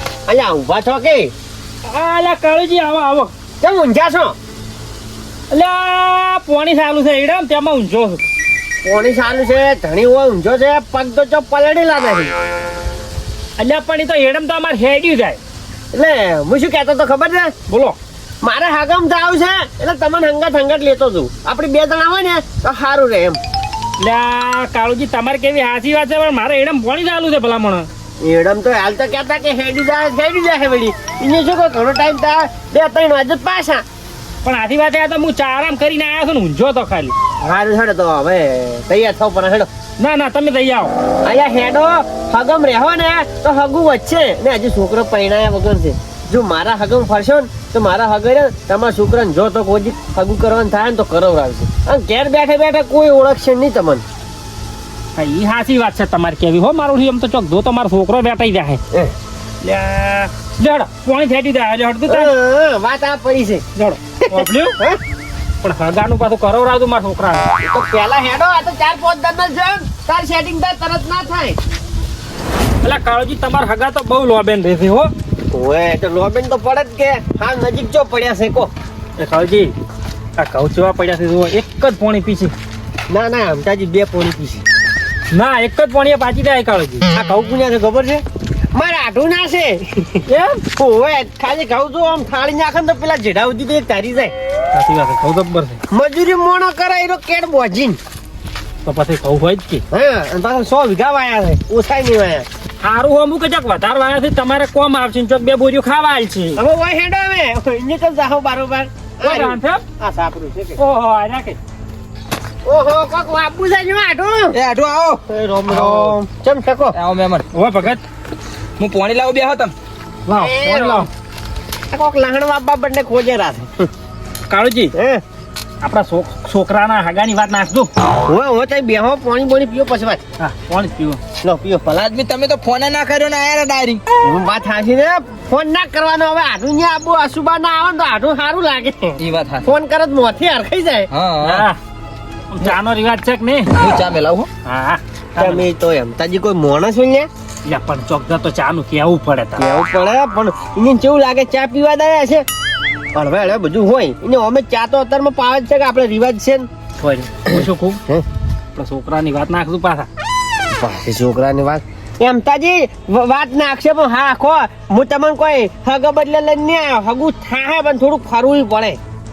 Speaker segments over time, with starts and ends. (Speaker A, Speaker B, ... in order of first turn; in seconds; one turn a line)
Speaker A: 0.3-1.3
Speaker B: 1.9-3.3
Speaker A: 3.6-4.3
Speaker B: 5.5-8.2
Speaker A: 8.8-12.3
Speaker B: 13.6-15.4
Speaker A: 15.9-17.5
Speaker B: 17.7-18.0
Speaker A: 18.4-23.4
Speaker B: 24.0-27.9
Speaker A: 28.2-33.8
Speaker B: 34.4-37.1
Speaker A: 37.4-39.7
Speaker B: 40.0-40.9
Speaker A: 41.2-54.0
Speaker B: 55.2-58.8
Speaker B: 59.6-62.3
Speaker A: 62.1-63.6
Speaker B: 63.8-64.8
Speaker A: 64.3-65.0
Speaker B: 65.6-67.5
Speaker A: 67.6-71.6
Speaker B: 72.8-75.1
Speaker A: 75.5-78.7
Speaker B: 79.2-79.7
Speaker B: 80.4-82.5
Speaker A: 83.1-84.6
Speaker B: 85.3-87.1
Speaker A: 87.1-94.3
Speaker B: 90.3-90.6
Speaker B: 94.7-95.8
Speaker A: 95.9-98.0
Speaker B: 98.8-99.8
Speaker A: 99.9-102.5
Speaker B: 102.8-106.6
Speaker A: 106.6-110.8
Speaker B: 109.2-109.8
Speaker B: 110.8-111.6
Speaker A: 112.7-114.6
Speaker C: 114.5-115.2
Speaker A: 115.3-117.0
Speaker B: 115.7-116.1
Speaker C: 116.9-117.5
Speaker B: 117.5-118.0
Speaker C: 118.8-119.7
Speaker B: 120.3-121.1
Speaker A: 120.3-121.1
Speaker A: 121.9-123.9
Speaker B: 124.5-124.9
Speaker A: 124.9-125.2
Speaker B: 125.8-127.9
Speaker A: 128.2-130.2
Speaker B: 130.4-131.2
Speaker A: 131.4-131.9
Speaker C: 131.9-134.0
Speaker A: 134.2-141.1
Speaker C: 139.2-139.7
Speaker C: 141.1-141.7
Speaker B: 141.4-141.8
Speaker B: 142.5-143.7
Speaker C: 143.7-144.5
Speaker B: 144.7-145.7
Speaker A: 145.4-147.3
Speaker B: 147.7-149.7
Speaker A: 149.6-152.5
Speaker A: 153.1-156.7
Speaker B: 157.0-158.0
Speaker A: 157.5-158.2
Speaker B: 158.8-160.1
Speaker A: 160.8-169.0